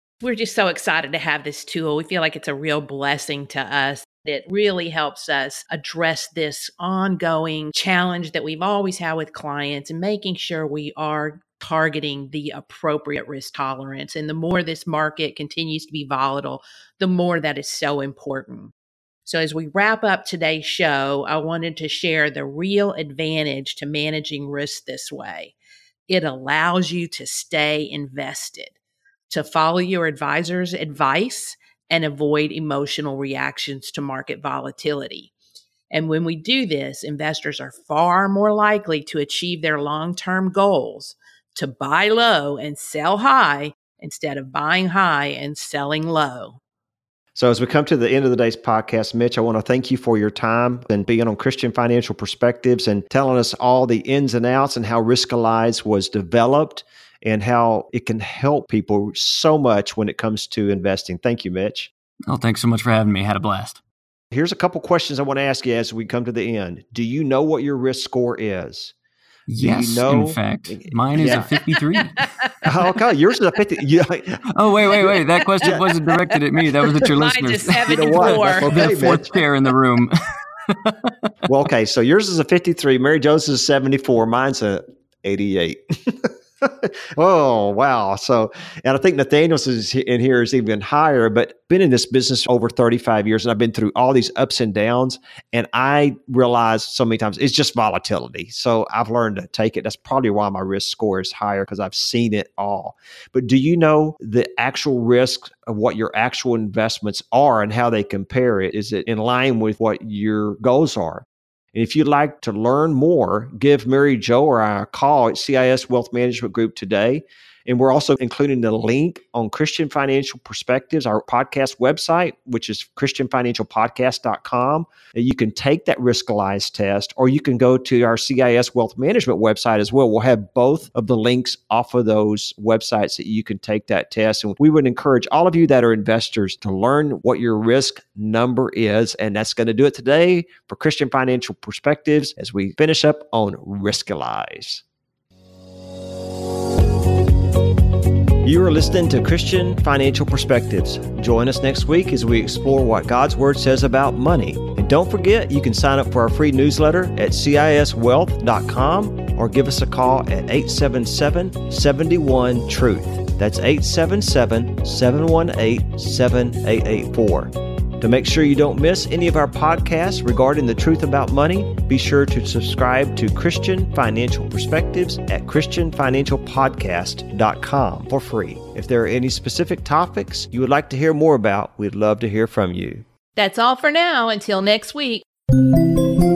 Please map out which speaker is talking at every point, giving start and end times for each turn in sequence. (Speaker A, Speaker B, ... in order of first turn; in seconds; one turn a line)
Speaker A: 0.2-18.7
Speaker A: 19.3-25.5
Speaker A: 26.1-28.8
Speaker A: 29.3-35.3
Speaker A: 35.9-46.6
Speaker B: 47.4-61.9
Speaker C: 62.3-63.8
Speaker B: 64.3-68.9
Speaker C: 69.5-72.3
Speaker B: 69.6-71.5
Speaker B: 72.6-75.8
Speaker C: 74.5-80.2
Speaker A: 77.0-79.2
Speaker B: 77.9-79.4
Speaker C: 80.7-81.1
Speaker B: 81.5-144.8
Speaker B: 148.4-183.1
Speaker A: 183.4-185.2